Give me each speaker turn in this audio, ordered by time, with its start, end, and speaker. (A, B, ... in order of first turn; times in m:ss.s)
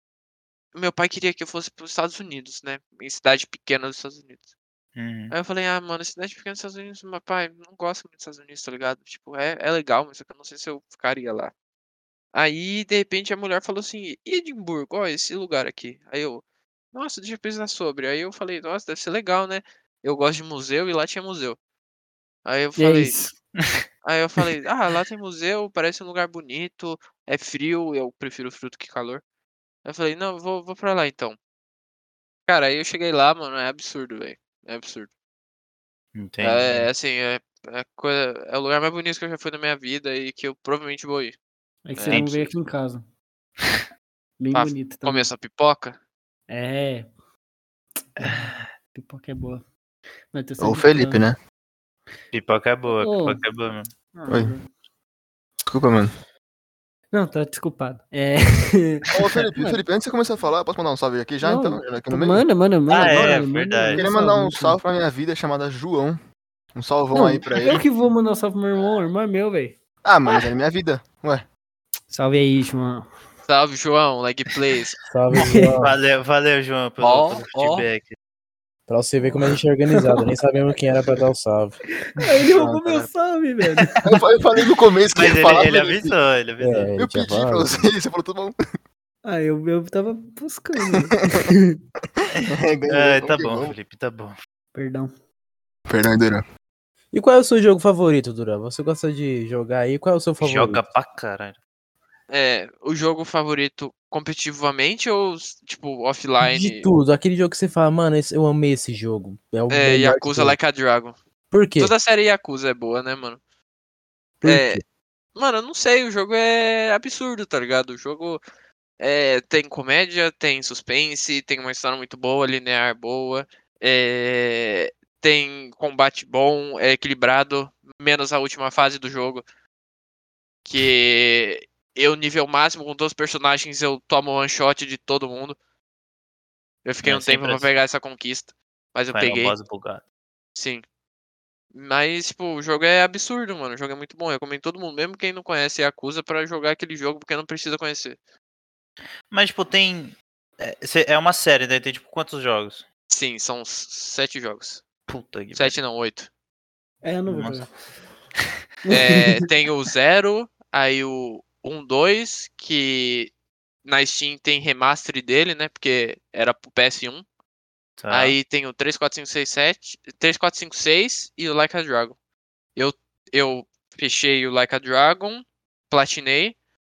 0:00.7-0:04.4 A
0:05.0-0:05.3 B
0:05.3-0:11.5 A
0:12.3-0:16.4 A
0:16.9-0:21.6 A
0:22.4-0:23.2 A
0:22.8-0:23.4 C
0:23.6-0:23.8 B
0:24.0-0:29.2 A
0:29.8-0:31.4 A
0:32.5-0:35.1 A
0:36.1-0:36.9 B
0:36.4-0:41.4 A
0:41.8-0:43.1 C
0:41.9-0:42.5 A
0:42.1-0:42.4 B
0:44.4-0:45.3 C
0:44.5-0:46.0 A
0:46.5-0:47.1 C
0:48.2-0:49.6 C
0:48.2-0:48.6 B
0:50.3-0:51.2 C
0:50.6-0:51.4 D
0:52.3-0:53.9 B
0:53.0-0:53.4 C
0:54.1-0:54.7 C
0:54.3-0:54.5 D
0:55.7-0:56.1 D
0:57.1-0:59.8 C
0:59.1-1:02.4 D
1:01.4-1:04.8 C
1:02.9-1:04.0 B
1:03.9-1:06.2 D
1:06.7-1:07.8 D
1:07.1-1:10.4 C
1:10.0-1:11.4 D
1:12.1-1:13.1 C
1:13.5-1:15.0 A
1:15.1-1:16.0 E
1:15.3-1:15.8 C
1:15.8-1:18.2 B
1:17.0-1:17.9 A
1:18.9-1:21.8 E
1:19.9-1:20.2 C
1:22.1-1:24.1 C
1:24.0-1:26.1 D
1:25.1-1:26.9 B
1:26.6-1:27.7 E
1:26.9-1:28.6 D
1:29.2-1:31.8 C
1:31.1-1:31.4 D
1:32.2-1:33.7 D
1:32.3-1:34.4 B
1:34.7-1:35.1 C
1:35.9-1:36.4 D
1:37.1-1:40.8 E
1:40.4-1:41.6 B
1:42.3-1:46.9 A
1:46.4-1:50.6 E
1:49.7-1:51.1 A
1:51.5-1:51.9 E
1:51.8-1:53.4 A
1:54.4-1:54.8 E
1:54.4-1:54.8 A
1:55.3-1:58.4 A
1:59.0-2:09.4 A
2:10.6-2:15.6 A
2:16.8-2:19.6 A
2:17.0-2:17.7 B
2:19.1-2:20.0 B
2:20.6-2:20.8 A
2:21.7-2:28.2 A
2:29.3-2:32.8 B
2:33.1-2:34.8 A
2:35.1-2:35.8 B
2:35.5-2:36.3 A
2:37.0-2:37.7 C
2:37.3-2:37.7 B
2:38.9-2:39.3 C
2:38.9-2:43.3 A
2:43.8-2:47.2 A
2:48.0-2:48.4 B
2:48.1-2:52.2 A
2:52.8-2:56.6 A